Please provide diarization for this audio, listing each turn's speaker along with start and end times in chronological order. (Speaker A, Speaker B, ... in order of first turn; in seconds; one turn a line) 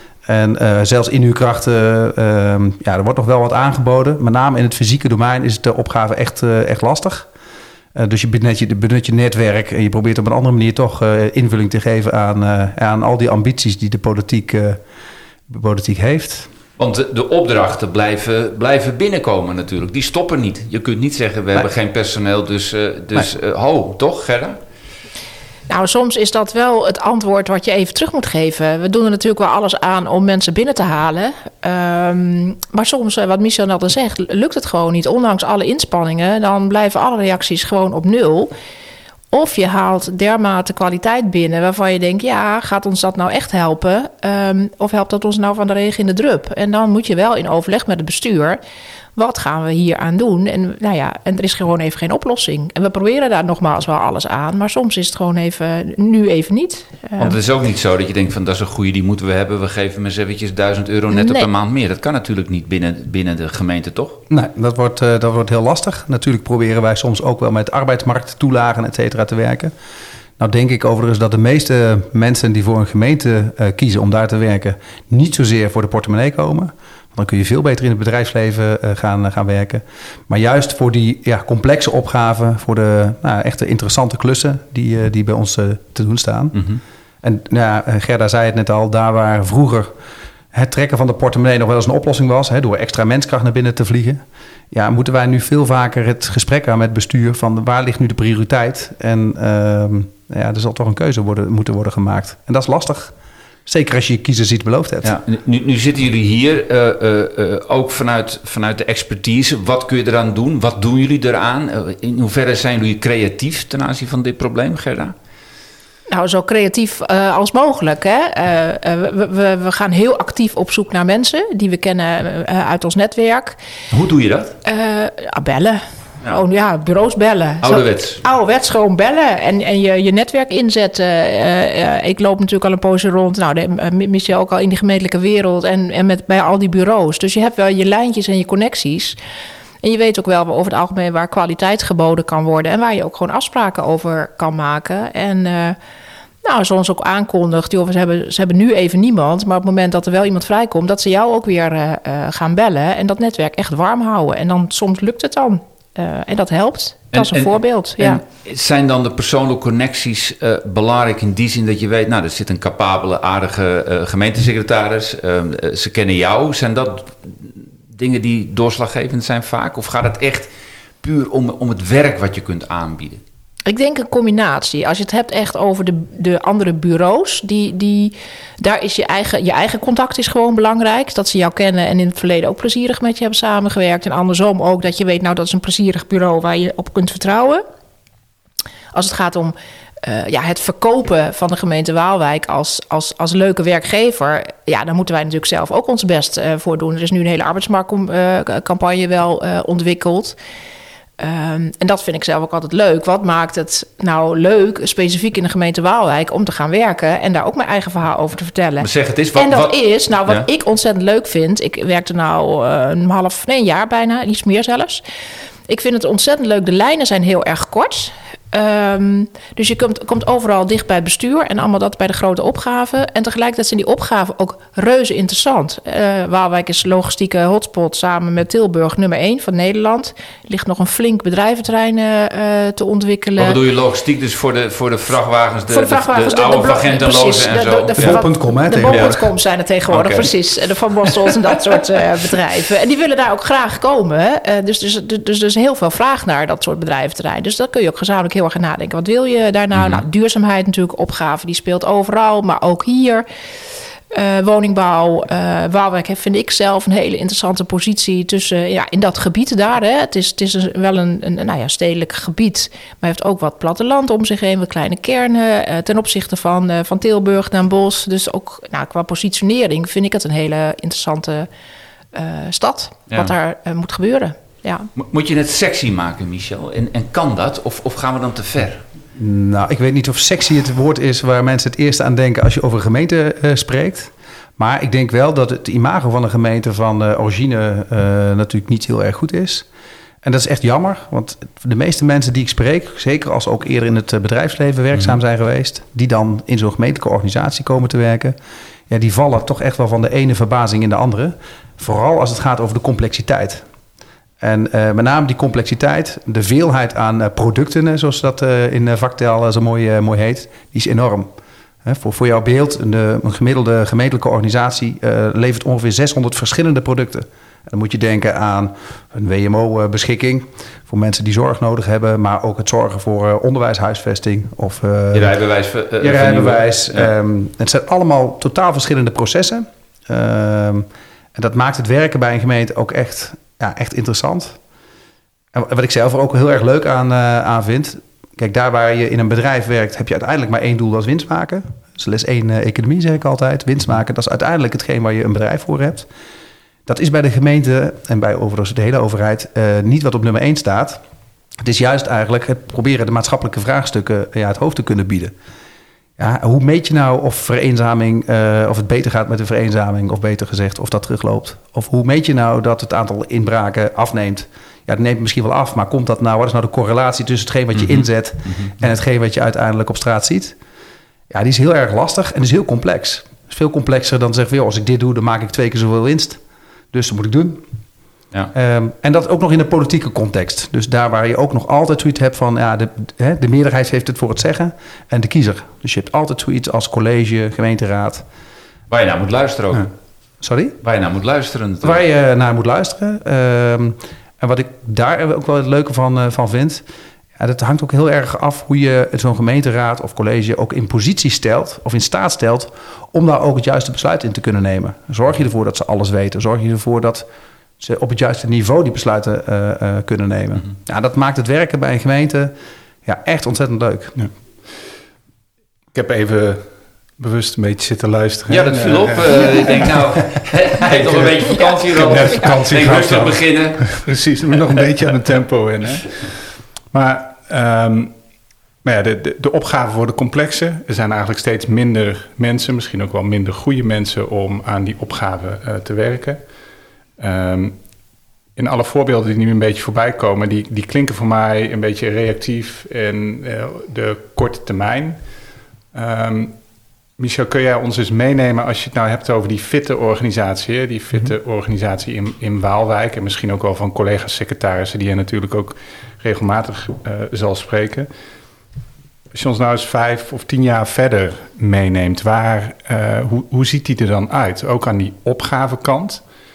Speaker A: 0.2-7.3
Speaker A: 7.9-14.8
Speaker A: 15.5-16.5
Speaker B: 16.8-24.6
Speaker C: 25.7-38.5
Speaker C: 39.3-48.6
Speaker C: 49.1-57.4
Speaker B: 57.2-64.2
Speaker C: 61.1-61.5
Speaker A: 64.3-69.7
Speaker A: 70.4-86.7
Speaker B: 86.5-86.8
Speaker A: 87.2-89.9
Speaker A: 90.5-103.1
Speaker A: 103.7-105.2
Speaker B: 105.0-115.1
Speaker C: 116.1-123.6
Speaker B: 123.9-124.5
Speaker C: 124.6-139.2
Speaker B: 127.6-128.2
Speaker C: 139.8-145.8
Speaker C: 146.4-158.2
Speaker B: 157.1-170.5
Speaker B: 171.0-173.2
Speaker C: 173.7-187.6
Speaker C: 188.9-200.4
Speaker C: 201.2-215.0
Speaker B: 208.8-210.5
Speaker C: 215.7-233.6
Speaker B: 233.4-238.2
Speaker C: 235.7-253.2
Speaker A: 238.0-239.2
Speaker B: 238.9-239.2
Speaker B: 239.9-240.3
Speaker B: 249.7-250.0
Speaker C: 254.1-271.5
Speaker C: 272.1-274.9
Speaker B: 274.9-278.8
Speaker A: 279.1-289.7
Speaker A: 290.2-298.4
Speaker A: 298.9-303.6
Speaker A: 304.4-311.3
Speaker A: 311.8-325.3
Speaker B: 325.1-327.1
Speaker A: 326.0-334.6
Speaker A: 335.5-346.1
Speaker A: 346.9-351.0
Speaker A: 351.6-355.3
Speaker A: 356.2-370.6
Speaker B: 367.7-368.7
Speaker A: 371.3-376.4
Speaker A: 376.9-377.6
Speaker A: 378.5-388.2
Speaker B: 388.9-389.9
Speaker A: 390.4-390.8
Speaker B: 390.8-392.0
Speaker A: 391.8-396.8
Speaker A: 397.4-407.3
Speaker A: 407.8-414.2
Speaker D: 415.9-428.1
Speaker B: 418.5-424.0
Speaker D: 428.8-436.4
Speaker D: 437.2-437.8
Speaker D: 438.6-445.2
Speaker D: 445.9-446.6
Speaker D: 447.2-458.1
Speaker D: 459.3-466.2